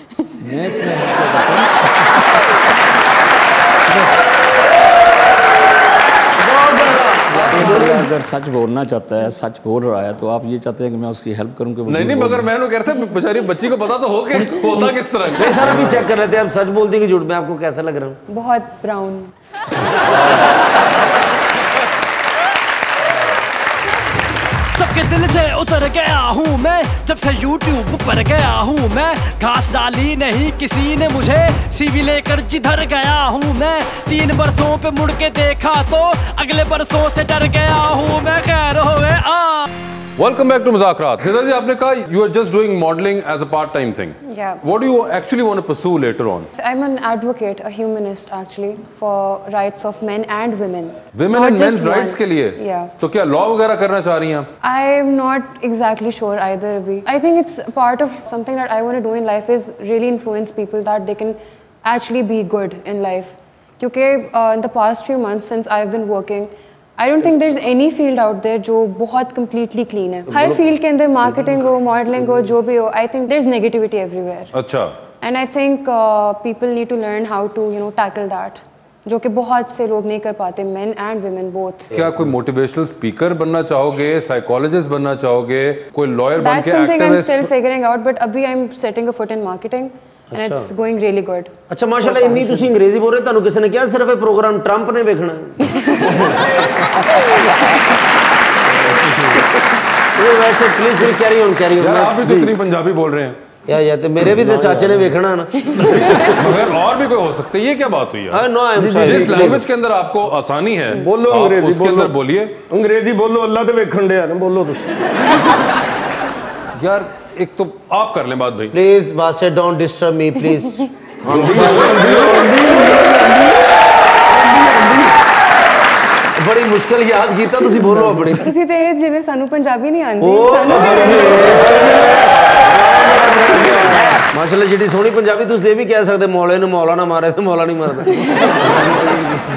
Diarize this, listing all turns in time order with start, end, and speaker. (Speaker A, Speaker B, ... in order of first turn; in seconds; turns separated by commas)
Speaker A: 0.4-1.9, Speaker B: 6.6-7.8, Speaker C: 6.8-7.9, Speaker A: 7.3-12.5, Speaker C: 11.9-15.9, Speaker A: 14.6-14.8, Speaker B: 15.3-18.2, Speaker D: 18.3-19.3, Speaker B: 20.0-20.5, Speaker E: 24.7-39.7, Speaker C: 40.2-46.5, Speaker D: 44.2-44.6, Speaker D: 46.6-52.9, Speaker C: 51.1-54.5, Speaker D: 54.6-74.5, Speaker C: 74.5-74.9, Speaker D: 75.2-81.9, Speaker C: 81.9-87.5, Speaker B: 82.0-82.2, Speaker D: 86.4-91.5, Speaker B: 90.3-90.7, Speaker B: 91.7-96.3, Speaker F: 92.3-92.6, Speaker F: 99.0-99.4, Speaker B: 100.1-102.2, Speaker C: 101.8-103.4, Speaker F: 102.2-102.5, Speaker B: 103.7-106.2, Speaker F: 104.2-105.2, Speaker F: 105.8-106.2, Speaker C: 106.3-108.5, Speaker B: 108.3-109.6, Speaker F: 108.8-109.6, Speaker C: 109.0-112.5, Speaker F: 110.9-112.2, Speaker F: 112.7-114.9, Speaker C: 116.8-118.7, Speaker B: 118.7-120.9, Speaker F: 121.2-123.6, Speaker C: 121.3-122.8, Speaker F: 124.3-125.1, Speaker B: 126.4-128.5, Speaker F: 127.8-128.2, Speaker D: 128.3-131.5, Speaker B: 130.2-138.9, Speaker F: 130.7-132.3, Speaker F: 133.5-134.2